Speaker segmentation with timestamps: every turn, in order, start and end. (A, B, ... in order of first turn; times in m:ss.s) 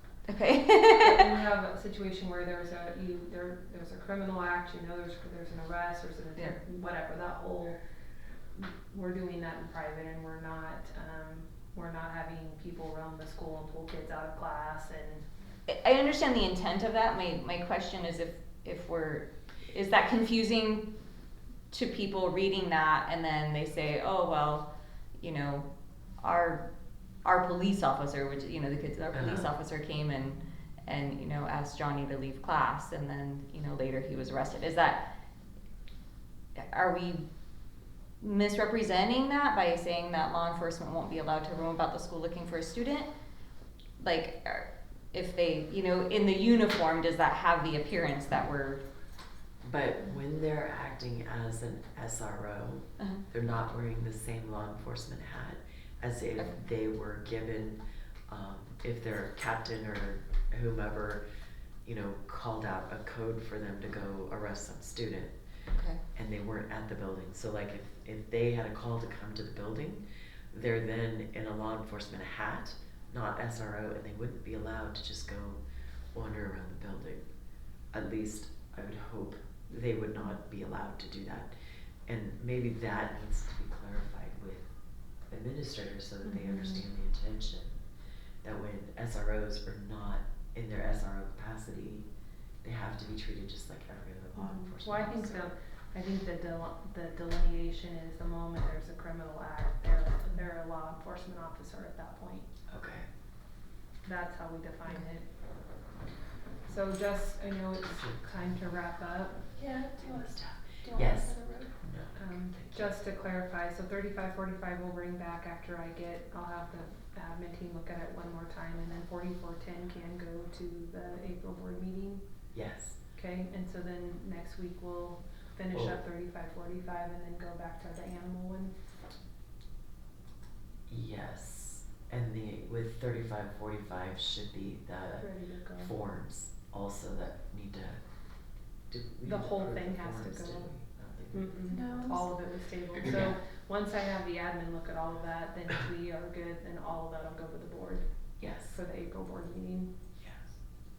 0:00.3-0:01.3 A
0:00.9-0:07.8 B
0:08.5-0:15.2 B
0:15.7-0:20.9 A
0:21.7-0:24.7 A
0:25.2-0:25.7 A
0:26.2-0:26.6 A
0:27.2-0:35.1 A
0:29.1-0:29.5 C
0:36.6-0:37.2 A
0:38.2-0:43.1 A
0:44.0-0:48.8 A
0:49.6-0:57.8 C
0:58.3-1:01.2 C
1:01.8-1:05.3 C
1:05.7-1:06.0 A
1:06.1-1:15.6 C
1:16.1-1:17.2 C
1:17.9-1:21.5 C
1:22.1-1:24.6 C
1:25.3-1:27.8 C
1:26.3-1:26.6 B
1:28.4-1:32.1 C
1:32.6-1:35.5 C
1:34.8-1:42.5 B
1:42.7-1:43.1 C
1:44.0-1:45.3 B
1:46.7-1:49.4 B
1:47.9-1:48.7 C
1:49.6-1:51.8 D
1:50.0-1:52.9 C
1:52.2-2:02.2 B
2:02.5-2:03.0 C
2:03.1-2:08.7 B
2:05.7-2:06.0 C
2:10.9-2:18.0 C
2:15.2-2:15.9 B
2:18.9-2:21.8 C
2:19.2-2:20.7 B
2:21.3-2:28.0 B
2:21.7-2:22.3 D
2:23.0-2:23.3 C
2:28.4-2:28.8 C
2:28.7-2:29.9 B
2:30.2-2:30.5 C